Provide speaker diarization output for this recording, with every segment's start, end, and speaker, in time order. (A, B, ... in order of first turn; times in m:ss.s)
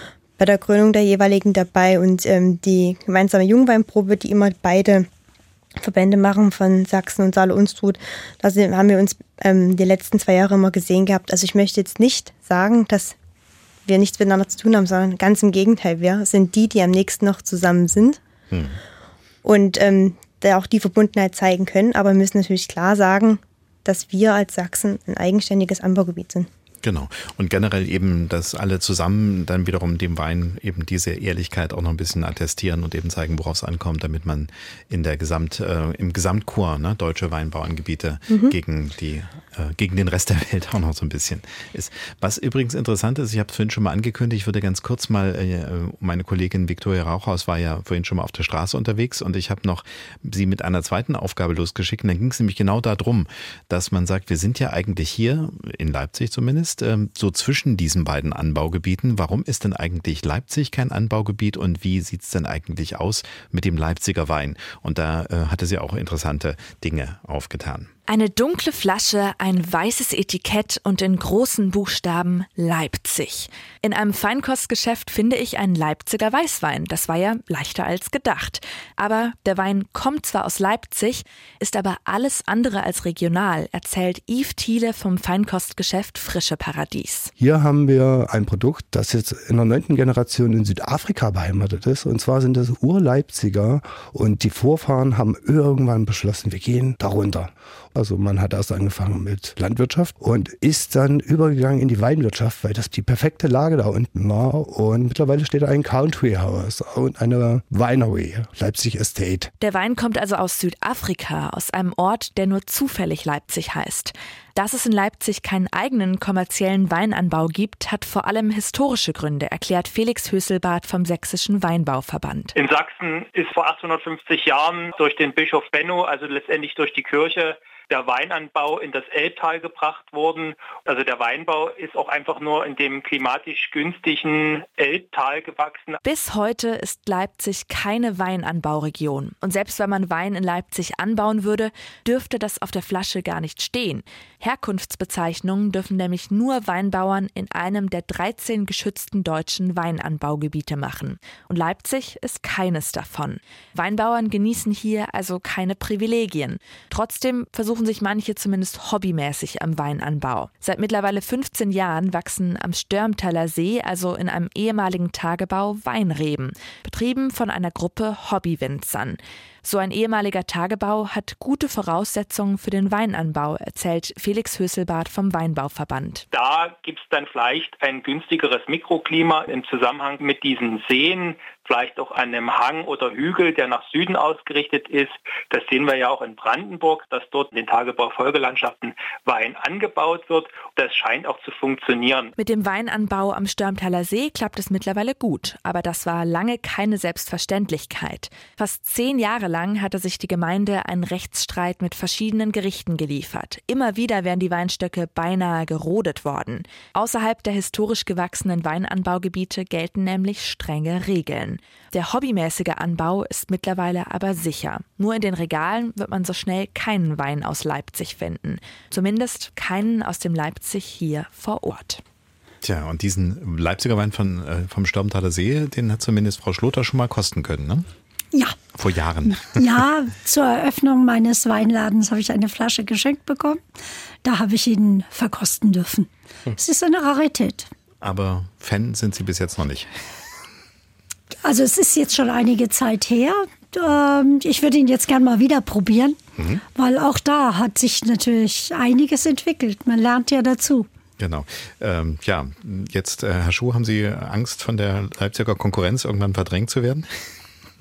0:00.4-0:05.1 A
0:05.8-0:13.2 A
0:13.9-0:18.2 A
0:18.5-0:18.8 B
0:19.4-0:26.5 A
0:26.8-1:07.9 B
0:38.3-0:38.6 A
1:08.1-1:27.3 C
1:27.4-1:49.5 D
1:49.6-2:02.5 C
2:02.5-2:16.0 E
2:16.0-2:56.2 C
2:56.3-3:12.3 E
3:12.4-3:42.0 C
3:42.6-3:47.9 B
3:48.8-3:49.6 B
3:49.5-3:53.6 F
3:54.2-3:57.7 F
3:58.0-3:59.9 B
4:01.4-4:06.2 F
4:06.4-4:06.6 B
4:06.8-4:10.9 F
4:11.2-4:17.1 B